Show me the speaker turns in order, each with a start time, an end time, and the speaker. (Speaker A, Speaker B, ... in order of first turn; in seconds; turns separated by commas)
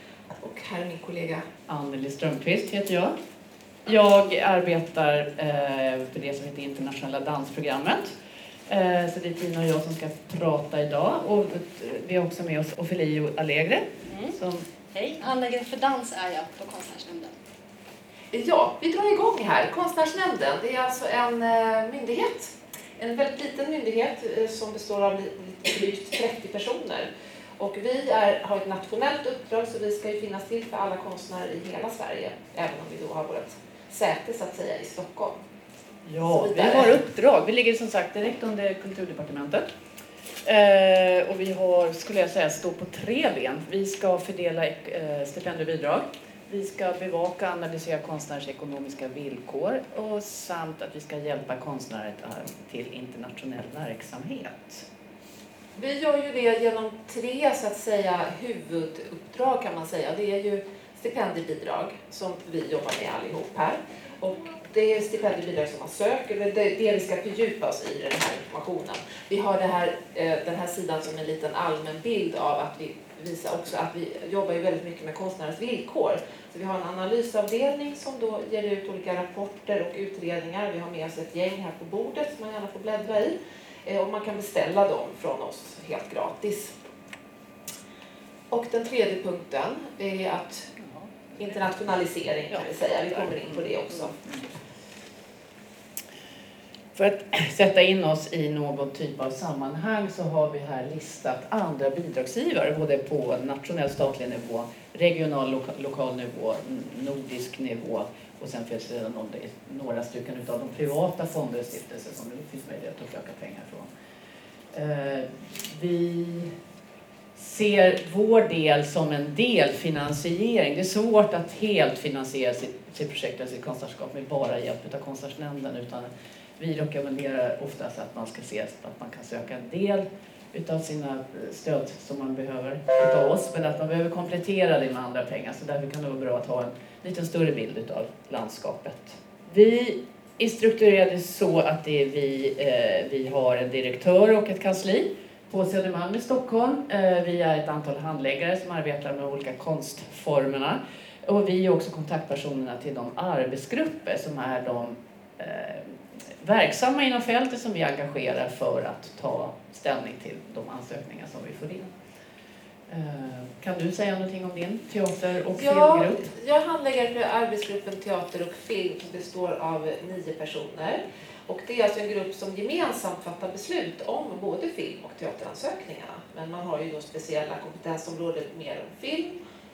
Speaker A: 0.4-1.5, Speaker B: 1.7-3.1, Speaker B: 3.9-8.2, Speaker B: 8.7-14.6, Speaker C: 14.1-14.4, Speaker C: 14.9-17.3, Speaker A: 18.3-35.4, Speaker B: 36.0-39.6, Speaker A: 36.2-37.0, Speaker B: 40.4-54.9, Speaker A: 55.8-86.7, Speaker A: 88.5-90.7, Speaker A: 91.4-94.1, Speaker B: 92.5-94.5, Speaker B: 97.0-113.9, Speaker B: 114.7-116.5, Speaker B: 117.3-161.9, Speaker B: 162.9-166.2, Speaker A: 165.6-179.4